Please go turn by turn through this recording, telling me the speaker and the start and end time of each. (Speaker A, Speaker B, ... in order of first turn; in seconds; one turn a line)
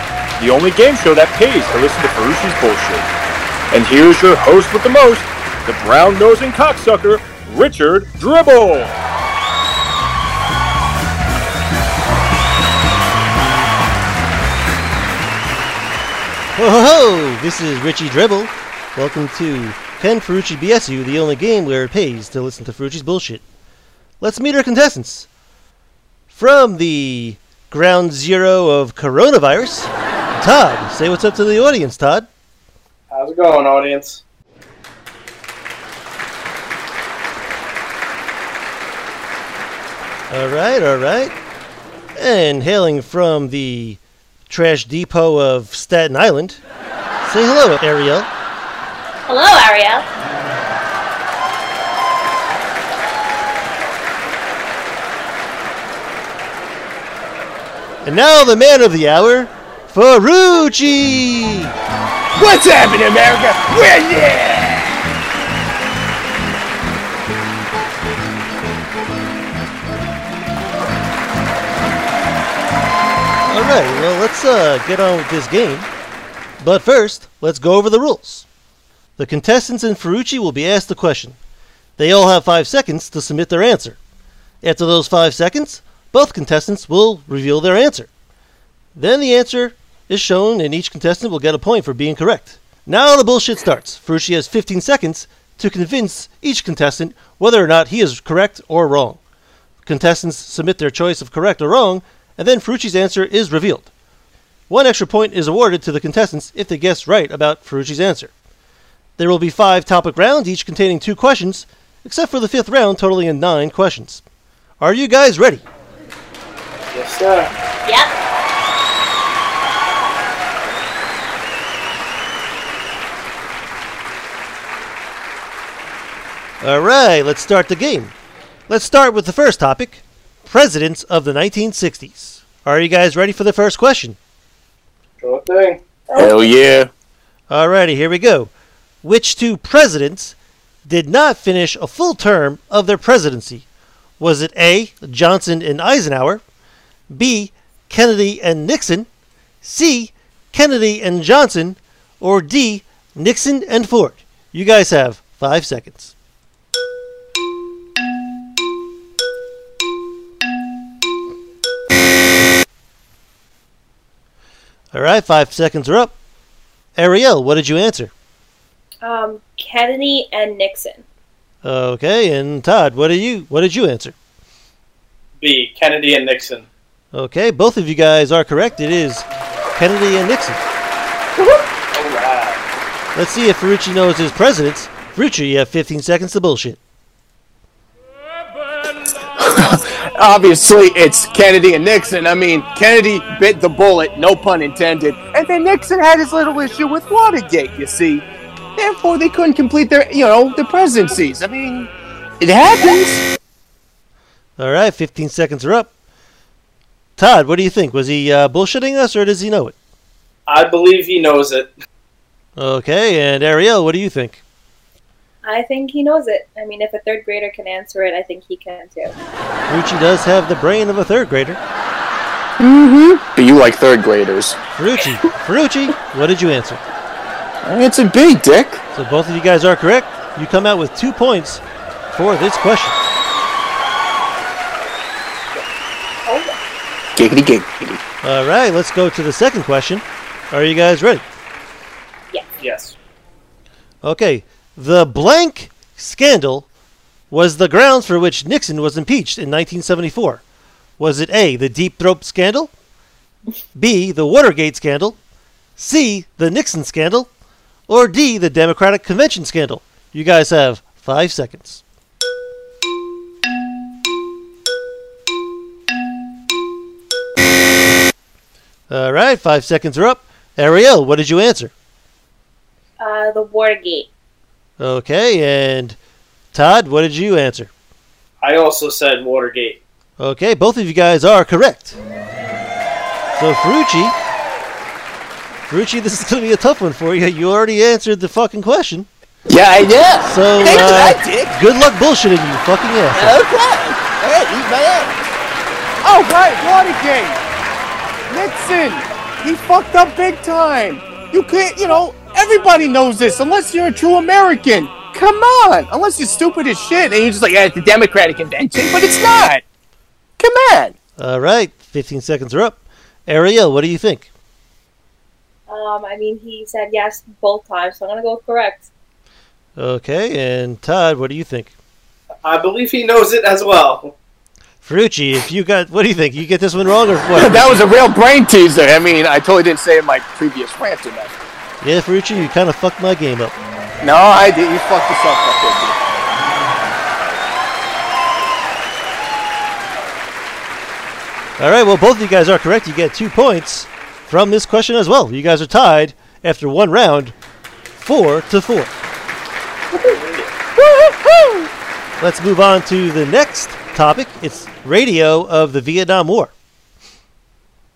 Speaker A: 0.4-3.1
Speaker A: 3.7-9.0
Speaker B: 16.6-23.4
Speaker B: 24.2-25.3
Speaker B: 26.3-32.3
Speaker C: 33.1-34.2
Speaker B: 40.3-41.3
Speaker B: 42.2-46.6
Speaker B: 47.2-48.3
Speaker D: 49.3-50.1
Speaker B: 58.0-61.7
Speaker E: 62.4-65.0
Speaker B: 73.5-75.9
Speaker B: 76.6-78.5
Speaker B: 79.2-81.4
Speaker B: 82.0-84.0
Speaker B: 84.6-88.1
Speaker B: 89.0-99.2
Speaker B: 99.8-103.9
Speaker B: 104.7-108.3
Speaker B: 109.2-114.2
Speaker B: 114.8-115.6
Speaker C: 116.9-117.5
Speaker B: 126.6-128.1
Speaker B: 128.7-134.2
Speaker C: 135.2-136.3
Speaker E: 136.1-136.9
Speaker B: 137.5-138.5
Speaker B: 139.0-140.3
Speaker B: 140.9-143.7
Speaker B: 144.2-146.4
Speaker B: 147.1-149.1
Speaker B: 149.6-156.1
Speaker B: 164.9-166.1
Speaker B: 167.0-168.1
Speaker D: 169.0-171.1
Speaker B: 171.6-174.2
Speaker C: 175.4-176.7
Speaker B: 177.1-180.6
Speaker C: 181.9-182.6
Speaker B: 183.2-186.8
Speaker E: 189.4-198.2
Speaker E: 198.8-201.9
Speaker E: 202.4-203.2
Speaker B: 204.6-205.9
Speaker B: 207.2-209.8
Speaker C: 210.5-211.7
Speaker B: 212.6-214.4
Speaker D: 215.4-219.1
Speaker B: 219.7-221.6
Speaker E: 222.6-224.6
Speaker B: 224.8-226.8
Speaker E: 227.6-228.8
Speaker B: 228.9-233.0
Speaker D: 236.3-236.6
Speaker E: 237.2-238.0
Speaker B: 238.2-241.3
Speaker C: 242.6-242.9
Speaker B: 244.0-246.7
Speaker B: 247.3-250.4
Speaker B: 251.0-252.7
Speaker B: 253.8-255.2
Speaker B: 255.8-257.3
Speaker B: 257.9-261.8
Speaker B: 268.9-271.7
Speaker D: 273.0-274.1
Speaker B: 274.8-276.0
Speaker B: 276.5-277.7
Speaker C: 278.4-279.8
Speaker B: 280.2-282.0
Speaker B: 283.4-284.2
Speaker B: 285.7-289.1
Speaker E: 289.5-291.6
Speaker B: 290.3-293.4
Speaker E: 293.1-295.2
Speaker E: 296.0-297.4
Speaker E: 298.3-309.6
Speaker E: 310.4-310.9
Speaker B: 311.2-314.3
Speaker D: 315.7-318.9
Speaker B: 319.8-321.7
Speaker C: 322.4-324.1
Speaker B: 324.8-327.9
Speaker E: 327.4-331.4
Speaker B: 331.8-333.6
Speaker E: 334.0-336.0
Speaker B: 341.6-347.4
Speaker B: 348.0-348.9
Speaker C: 349.9-350.5
Speaker E: 350.8-351.7
Speaker B: 352.2-356.5